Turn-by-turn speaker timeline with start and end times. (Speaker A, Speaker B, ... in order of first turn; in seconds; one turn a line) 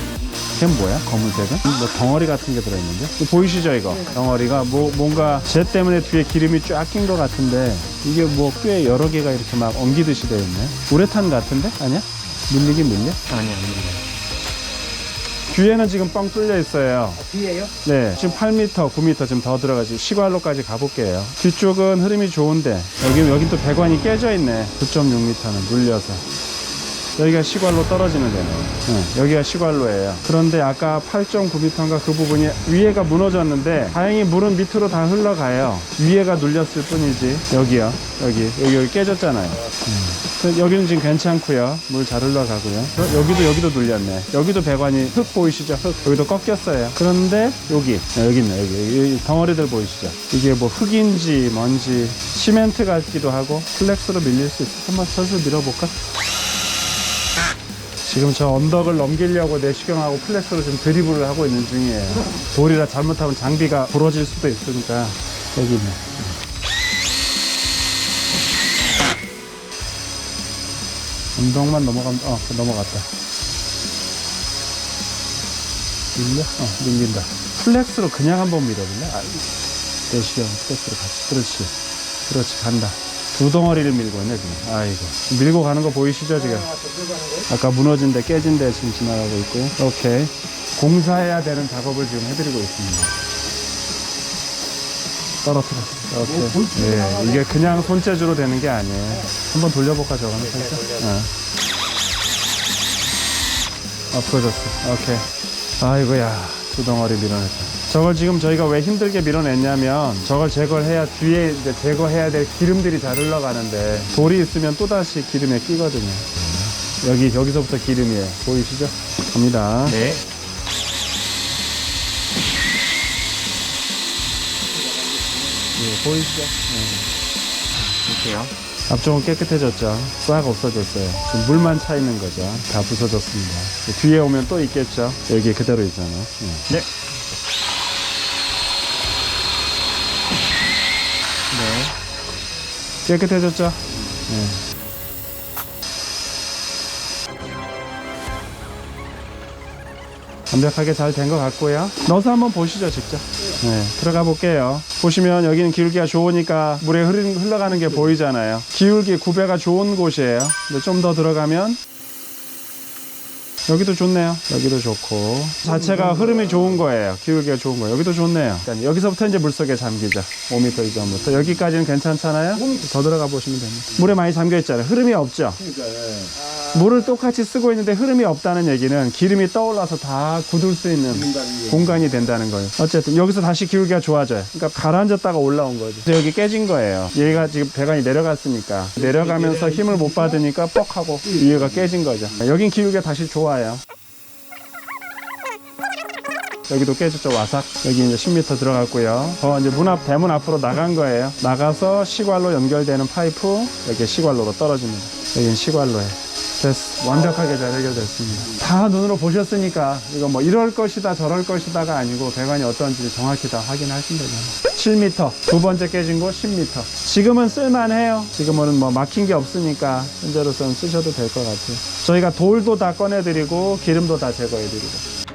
Speaker A: 0.5-13.2
Speaker B: 13.3-14.1
Speaker A: 15.5-17.2
Speaker C: 17.1-17.8
Speaker A: 17.8-26.2
Speaker A: 27.2-55.9
Speaker A: 58.0-66.3
Speaker A: 71.3-73.1
Speaker A: 76.1-79.5
Speaker A: 80.1-81.7
Speaker A: 82.2-86.7
Speaker C: 86.3-87.5
Speaker A: 87.5-93.1
Speaker A: 95.4-101.3
Speaker C: 96.1-97.7
Speaker B: 100.3-101.2
Speaker A: 104.1-120.0
Speaker B: 116.4-116.7
Speaker B: 119.8-120.2
Speaker A: 125.7-127.1
Speaker B: 127.8-128.5
Speaker A: 128.9-136.8
Speaker B: 141.5-141.9
Speaker A: 143.0-144.6
Speaker A: 150.5-161.8
Speaker A: 163.7-175.6
Speaker A: 176.7-193.8
Speaker A: 196.7-225.0